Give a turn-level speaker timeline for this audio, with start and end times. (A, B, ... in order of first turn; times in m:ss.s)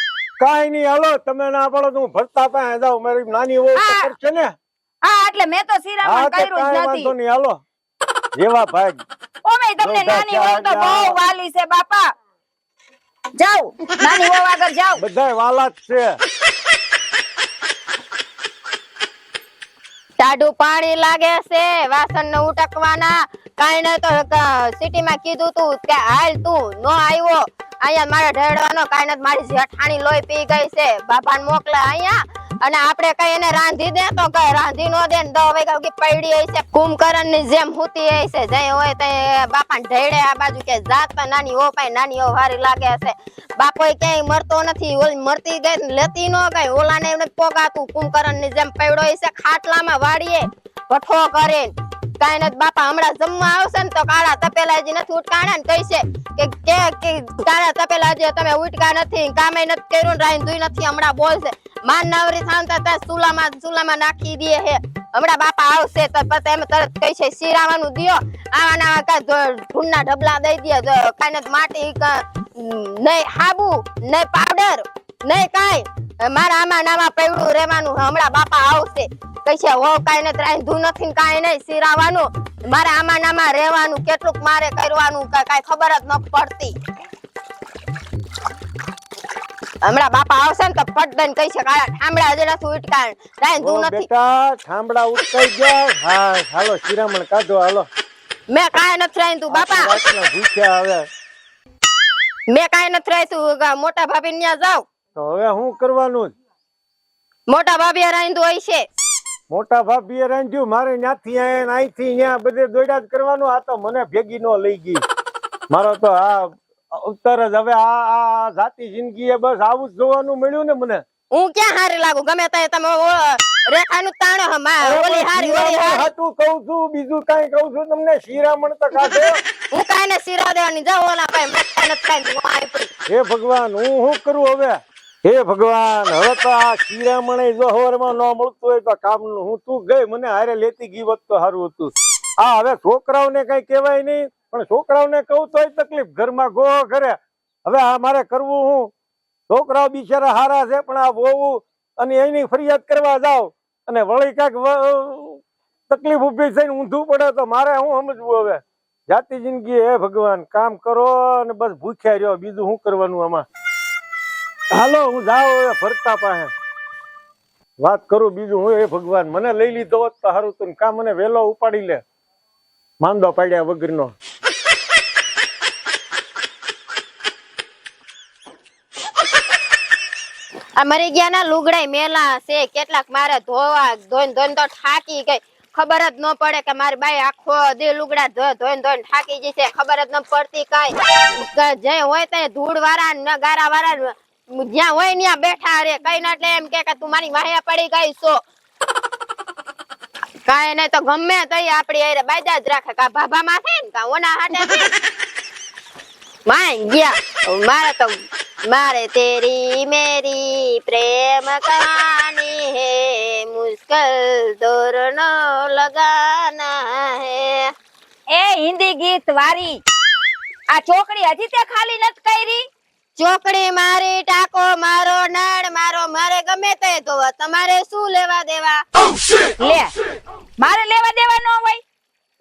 0:00.4-0:04.5 A
0:03.8-0:04.1 B
0:05.0-0:07.1 B
0:06.0-0:07.6 A
0:08.4-0:09.0 A
0:09.4-0:12.1 B
0:09.8-0:11.2 A
0:13.4-0:15.0 B
0:15.0-0:16.2 A
0:20.2-1:26.7 C
1:29.8-1:34.1 C
1:33.6-1:37.9 A
1:38.5-1:40.0 C
1:39.5-1:41.0 A
1:42.5-1:44.8 C
1:45.2-1:46.3 A
1:47.5-1:48.9 C
1:49.5-1:55.0 A
1:55.7-2:01.0 A
2:01.3-2:06.1 C
2:04.8-2:09.4 A
2:09.7-2:12.9 C
2:13.1-2:28.9 A
2:29.5-2:43.5 A
2:44.7-2:46.5 A
2:47.8-2:52.0 A
2:53.0-2:54.2 A
3:00.8-3:18.4 C
3:20.5-3:24.9 C
3:26.5-3:37.7 C
3:38.3-3:39.8 B
3:40.7-3:42.6 B
3:43.2-3:48.8 C
3:49.6-3:49.9 B
3:50.6-3:51.8 B